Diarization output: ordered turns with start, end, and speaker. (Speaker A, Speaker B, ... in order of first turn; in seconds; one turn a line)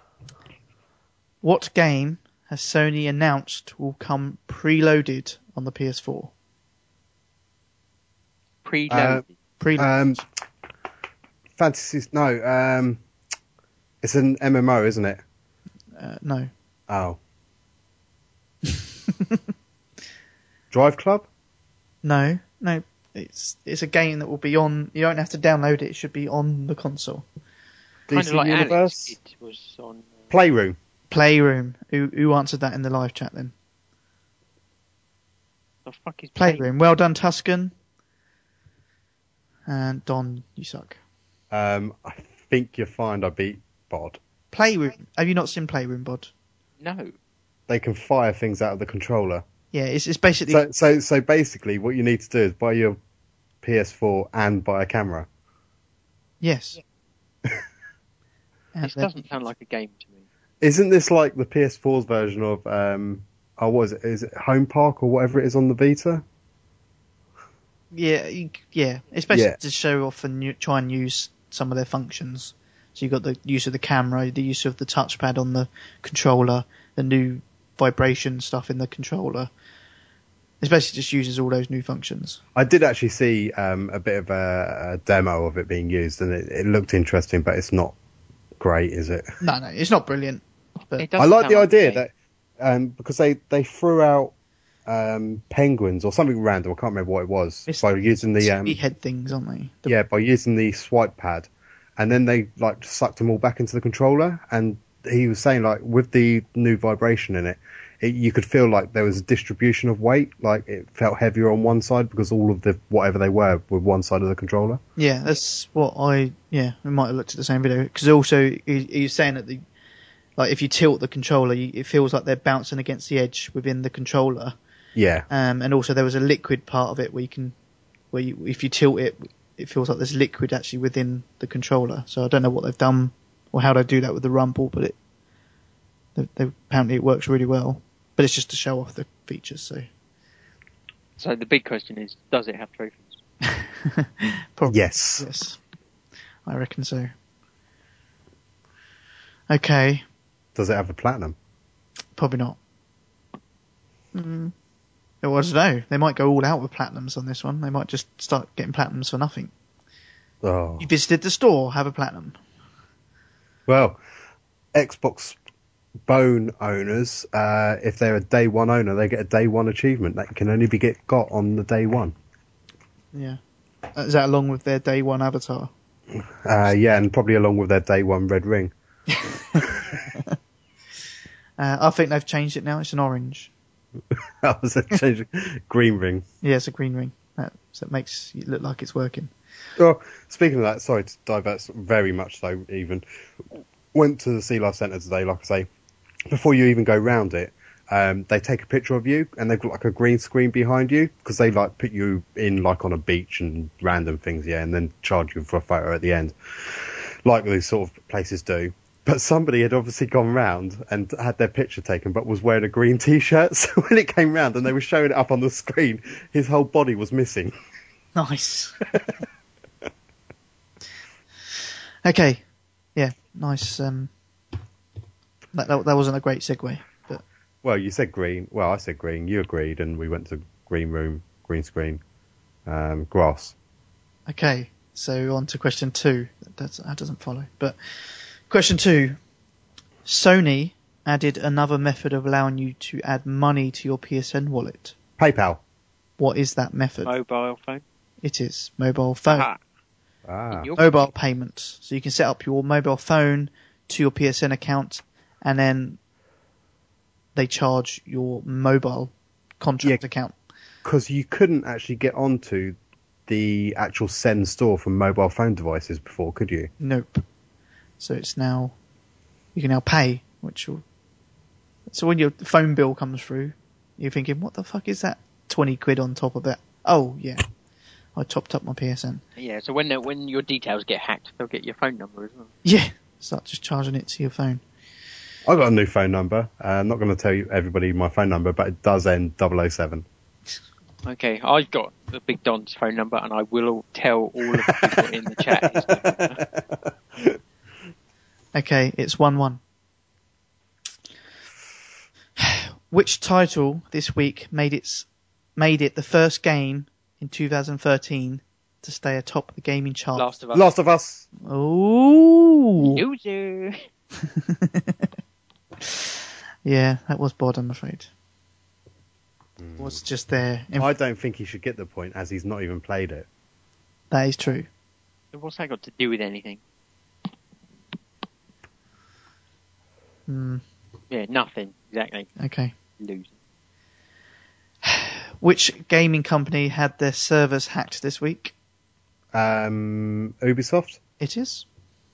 Speaker A: 1.4-6.3
Speaker B: 8.6-9.3
Speaker C: 8.9-9.2
Speaker A: 9.6-9.9
Speaker C: 9.8-10.2
Speaker C: 11.6-13.0
Speaker C: 14.0-15.2
Speaker A: 15.9-16.5
Speaker C: 16.9-17.2
Speaker A: 18.7-19.4
Speaker C: 20.7-21.3
Speaker A: 22.0-27.2
Speaker C: 28.1-29.1
Speaker B: 28.1-30.1
Speaker C: 30.3-30.8
Speaker A: 31.1-33.5
Speaker B: 35.9-36.6
Speaker A: 36.4-37.7
Speaker A: 39.7-41.0
Speaker C: 41.5-44.2
Speaker A: 44.5-46.3
Speaker B: 46.8-47.1
Speaker C: 47.7-49.4
Speaker A: 49.7-50.6
Speaker C: 50.5-53.0
Speaker C: 53.6-55.3
Speaker A: 56.4-56.8
Speaker A: 58.7-59.1
Speaker B: 58.8-60.2
Speaker C: 60.6-66.2
Speaker A: 67.9-79.5
Speaker C: 69.3-69.6
Speaker A: 80.6-82.4
Speaker C: 82.5-87.9
Speaker C: 88.6-89.3
Speaker A: 89.4-91.1
Speaker B: 91.0-92.0
Speaker C: 91.2-94.3
Speaker C: 94.9-98.8
Speaker A: 98.4-99.9
Speaker C: 99.9-114.8
Speaker A: 115.0-119.6
Speaker A: 120.4-124.5
Speaker C: 125.0-125.2
Speaker A: 125.3-127.5
Speaker A: 128.1-134.9
Speaker A: 136.2-139.9
Speaker B: 141.2-143.2
Speaker A: 143.5-145.6
Speaker C: 144.7-145.3
Speaker A: 146.4-147.1
Speaker A: 149.5-150.0
Speaker C: 150.5-151.3
Speaker A: 152.2-152.6
Speaker A: 154.1-154.5
Speaker A: 155.2-159.5
Speaker C: 160.4-160.9
Speaker A: 160.8-162.4
Speaker C: 163.7-164.0
Speaker C: 164.7-165.3
Speaker C: 166.1-172.1
Speaker A: 173.1-173.4
Speaker A: 173.9-175.7
Speaker C: 176.4-178.7
Speaker A: 179.1-180.3
Speaker C: 179.6-180.0
Speaker A: 181.6-183.5
Speaker C: 184.1-186.2
Speaker A: 186.4-189.3
Speaker C: 189.8-193.0
Speaker C: 193.6-195.7
Speaker C: 196.3-217.5
Speaker A: 218.1-218.8
Speaker A: 222.0-222.4
Speaker A: 222.9-224.1
Speaker A: 225.5-227.2
Speaker C: 227.6-232.0
Speaker C: 232.7-233.5
Speaker A: 234.3-237.8
Speaker A: 238.4-239.2
Speaker A: 240.0-244.9
Speaker C: 245.2-245.6
Speaker A: 246.2-247.1
Speaker B: 247.0-247.8
Speaker A: 248.2-249.5
Speaker B: 249.3-249.6
Speaker C: 250.3-250.7
Speaker B: 250.5-250.9
Speaker A: 250.8-256.0
Speaker A: 257.3-260.3
Speaker C: 260.8-262.8
Speaker C: 263.3-266.7
Speaker A: 266.8-267.2
Speaker A: 268.0-268.7
Speaker A: 269.5-270.8
Speaker A: 271.9-277.4
Speaker A: 278.1-279.2
Speaker B: 279.4-282.5
Speaker A: 282.6-284.6
Speaker C: 285.4-290.0
Speaker B: 291.0-296.4
Speaker C: 295.8-296.6
Speaker A: 298.5-299.6
Speaker A: 302.4-310.3
Speaker B: 310.1-310.7
Speaker C: 310.5-311.3
Speaker A: 311.4-313.0
Speaker B: 312.8-313.8
Speaker A: 314.2-315.1
Speaker A: 315.8-318.1
Speaker C: 319.6-320.0
Speaker A: 319.8-320.9
Speaker C: 320.8-323.3
Speaker A: 324.1-324.7
Speaker B: 325.3-326.6
Speaker A: 330.3-330.6
Speaker B: 331.1-332.3
Speaker A: 332.4-332.7
Speaker B: 333.0-333.3
Speaker A: 334.8-338.5
Speaker C: 339.3-341.0
Speaker A: 341.2-341.6